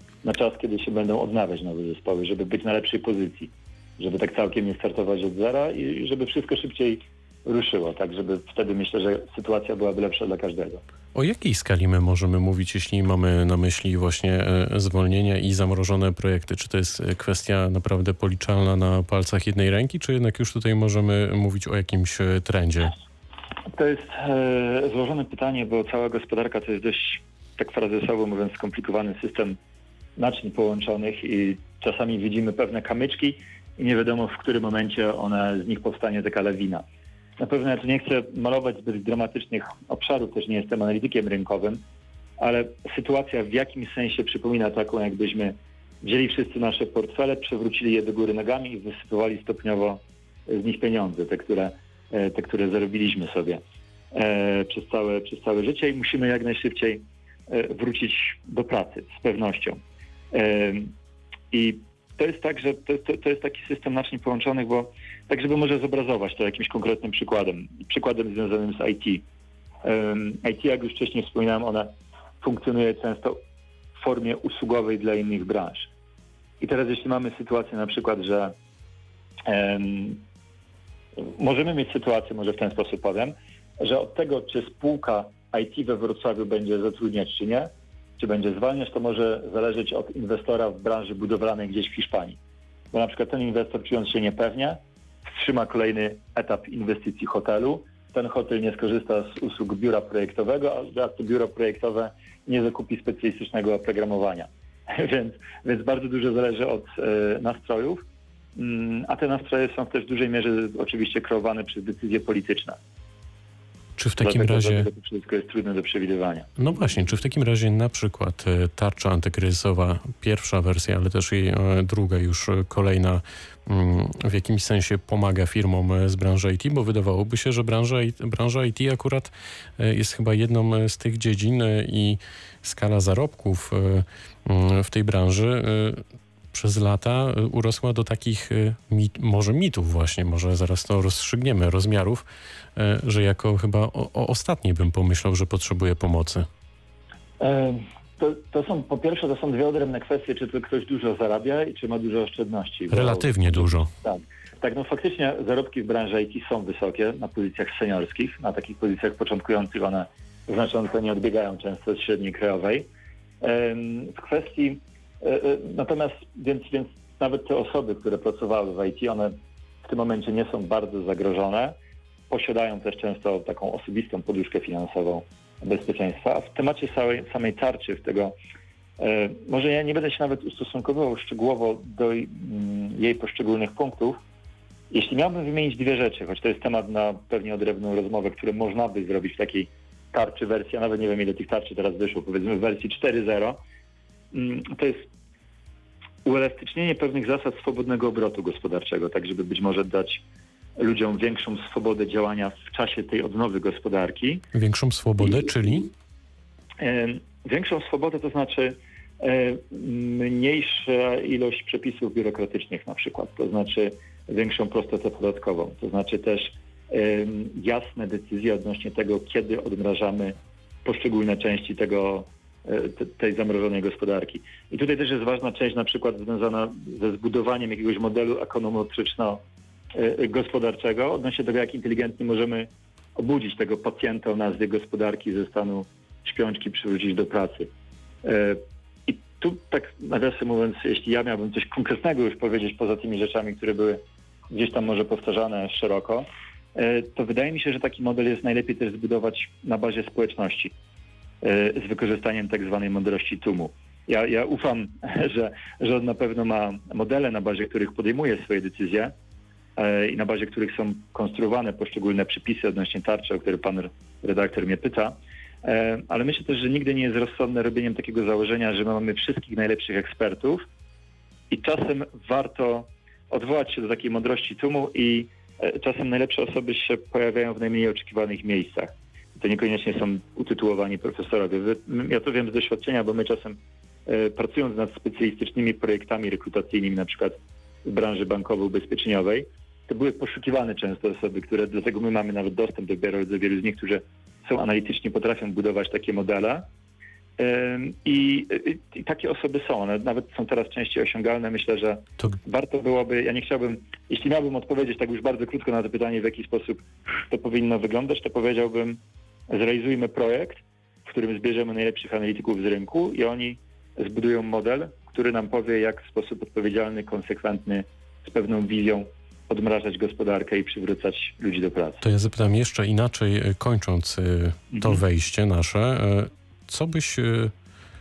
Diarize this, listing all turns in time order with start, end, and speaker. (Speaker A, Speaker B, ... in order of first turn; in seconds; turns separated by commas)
Speaker A: 0.2-10.8, Speaker B: 11.1-22.9, Speaker A: 23.7-29.6, Speaker A: 30.2-36.9, Speaker A: 37.4-41.8, Speaker A: 42.4-53.6, Speaker A: 54.1-59.8, Speaker A: 60.3-61.0, Speaker A: 61.5-69.2, Speaker A: 69.8-73.4, Speaker A: 74.0-75.9, Speaker A: 76.6-78.5, Speaker A: 79.5-80.2, Speaker A: 81.2-92.4, Speaker A: 92.9-108.0, Speaker A: 108.6-112.8, Speaker B: 114.0-114.9, Speaker A: 114.2-116.5, Speaker B: 116.6-142.2, Speaker B: 142.8-146.5, Speaker A: 147.4-162.9, Speaker B: 152.9-153.9, Speaker A: 163.4-171.8, Speaker A: 172.3-178.3, Speaker A: 179.0-184.2, Speaker A: 184.9-193.6, Speaker A: 194.3-195.1, Speaker A: 196.2-200.2, Speaker A: 200.8-204.4, Speaker B: 204.5-205.9, Speaker A: 206.8-229.4, Speaker A: 229.9-237.7, Speaker A: 238.2-250.8, Speaker A: 251.4-259.1, Speaker A: 259.8-270.6, Speaker A: 271.5-296.7, Speaker A: 297.4-322.0, Speaker B: 322.0-327.5, Speaker A: 324.7-325.0